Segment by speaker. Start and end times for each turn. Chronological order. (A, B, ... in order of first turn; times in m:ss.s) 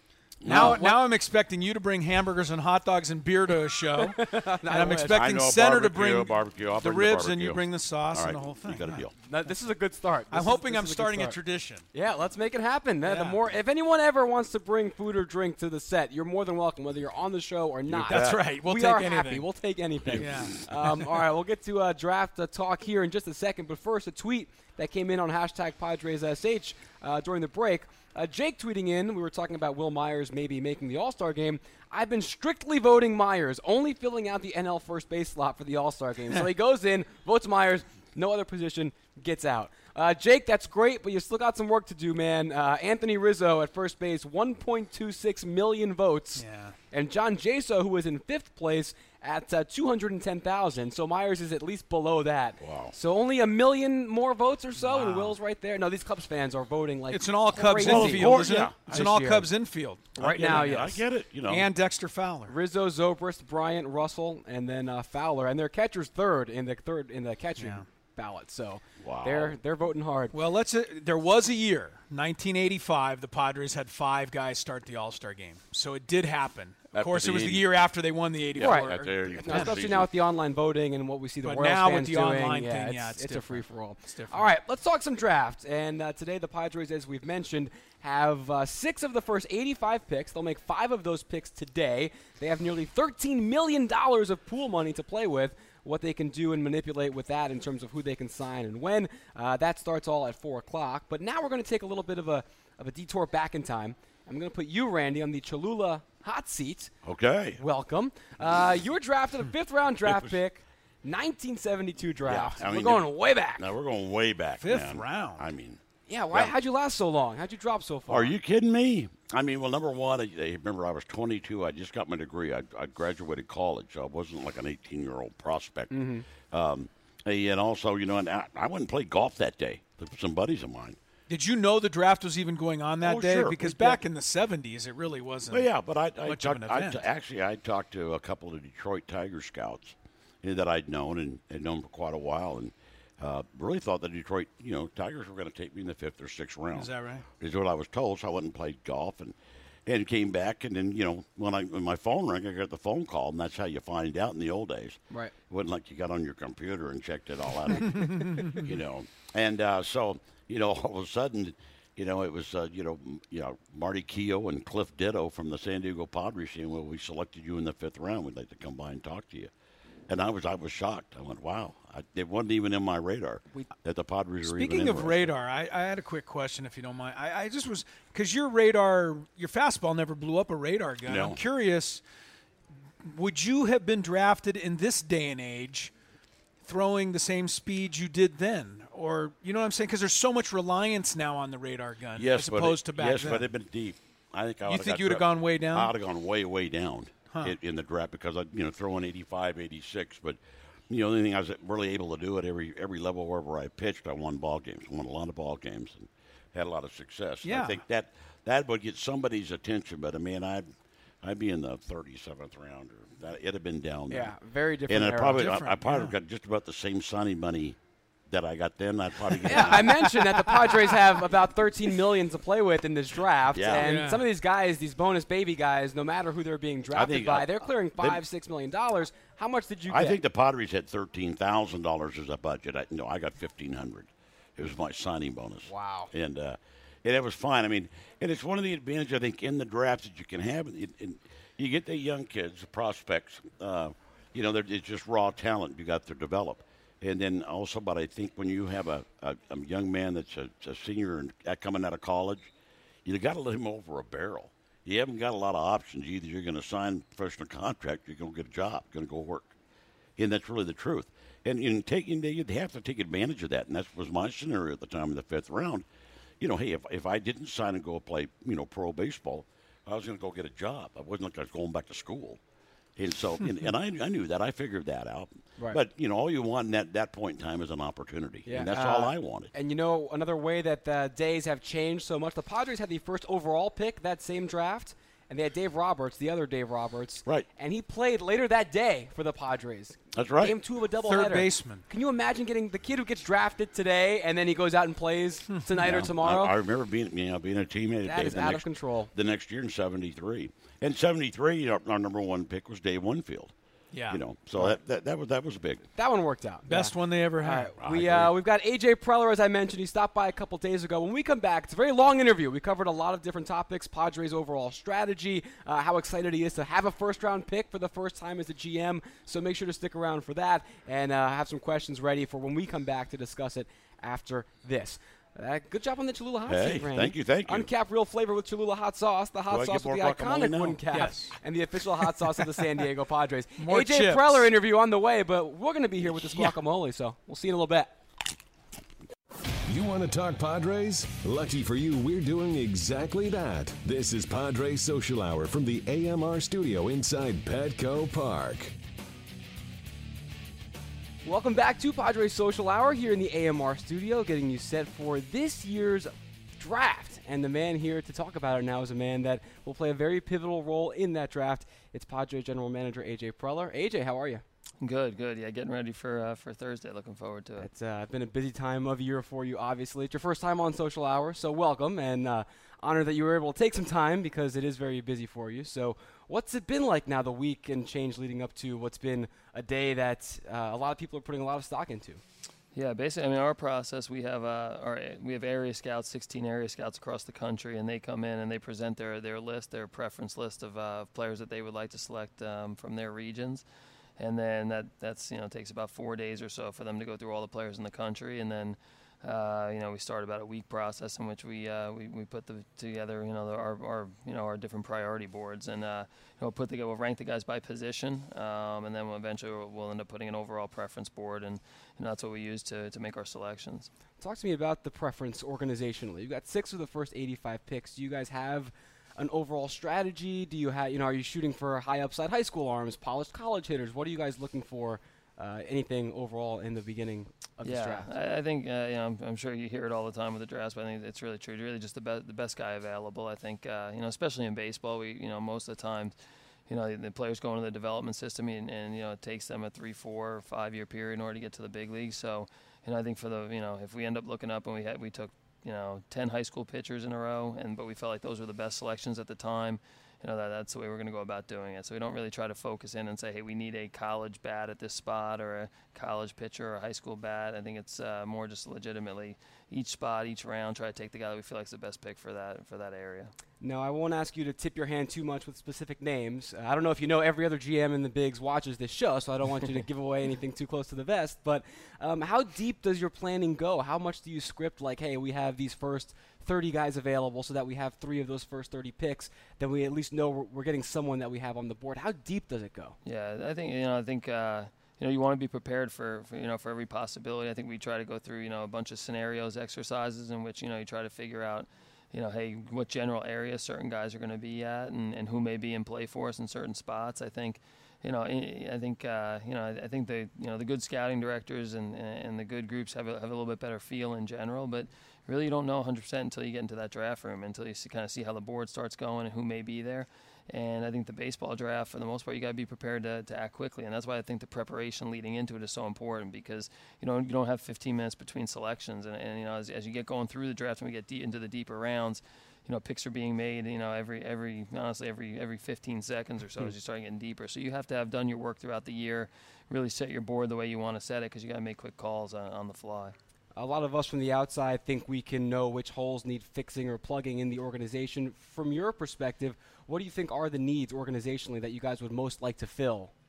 0:00.4-0:00.8 A
0:00.4-0:09.0 B
0:00.5-0:01.0 C
0:04.0-0:05.2 C
0:05.1-0:07.6 A
0:08.1-0:09.1 A
0:09.2-0:11.4 C
0:10.3-0:11.9 B
0:11.9-0:59.5 C
0:13.0-0:13.4 B
0:17.9-0:18.4 A
0:18.0-0:19.5 B
0:20.0-0:20.6 A
0:20.1-0:21.2 B
0:46.4-0:46.8 B
0:52.6-0:53.0 A
0:54.8-0:55.4 B
0:57.1-1:00.8 B
0:57.8-0:59.1 A
1:00.2-1:01.0 C
1:00.2-1:01.7 A
1:01.5-1:02.6 B
1:02.5-1:10.4 C
1:07.6-1:07.8 B
1:09.0-1:09.6 A
1:10.3-1:19.8 B
1:17.0-1:17.7 A
1:18.6-1:20.1 A
1:18.6-1:46.9 C
1:21.4-1:24.5 B
1:47.0-1:47.6 A
1:47.6-1:53.7 C
1:50.0-1:50.4 A
1:52.2-1:55.8 A
1:54.6-1:55.5 B
1:56.1-1:58.4 C
1:58.1-2:11.0 A
2:05.9-2:06.3 C
2:11.3-2:15.7 B
2:13.0-2:14.0 A
2:15.5-2:29.4 A
2:16.2-2:17.1 B
2:26.7-2:27.3 B
2:29.9-2:49.5 A
2:37.9-2:38.7 B
2:50.1-2:55.3 A
2:54.4-3:02.0 B
3:01.0-3:01.4 A
3:03.0-3:05.9 B
3:06.6-3:13.5 B
3:12.2-3:30.7 A
3:14.7-3:15.9 B
3:27.4-3:27.8 B
3:31.2-3:34.4 A
3:34.1-3:35.5 C
3:34.9-3:37.8 A
3:35.3-3:36.1 B
3:38.3-3:40.1 A
3:39.4-3:50.2 C
3:39.5-3:39.8 B
3:43.5-3:43.9 A
3:43.7-3:44.2 B
3:46.9-3:48.2 A
3:49.9-4:12.5 A
3:55.6-3:56.1 C
4:13.0-4:19.5 A
4:20.2-4:25.8 A
4:26.4-4:32.4 A
4:33.0-4:39.5 A
4:38.5-4:56.5 C
4:50.1-4:50.6 A
4:51.1-4:51.8 B
4:55.8-5:03.5 A
4:58.0-4:59.1 C
5:03.9-5:04.7 B
5:04.1-5:05.8 A
5:06.0-5:37.9 C
5:06.7-5:07.8 B
5:07.8-5:08.3 A
5:26.5-5:27.7 A
5:29.5-5:30.8 A
5:30.9-5:31.3 B
5:33.6-5:34.5 B
5:39.7-5:48.7 D
5:51.2-6:04.4 C
6:04.8-6:07.7 E
6:07.6-6:22.2 C
6:22.8-6:33.6 E
6:34.2-6:53.9 E
6:54.2-7:08.1 C
7:07.6-7:16.2 E
7:16.7-7:43.3 E
7:43.6-8:03.0 C
8:03.0-8:53.2 E
8:53.6-9:03.1 C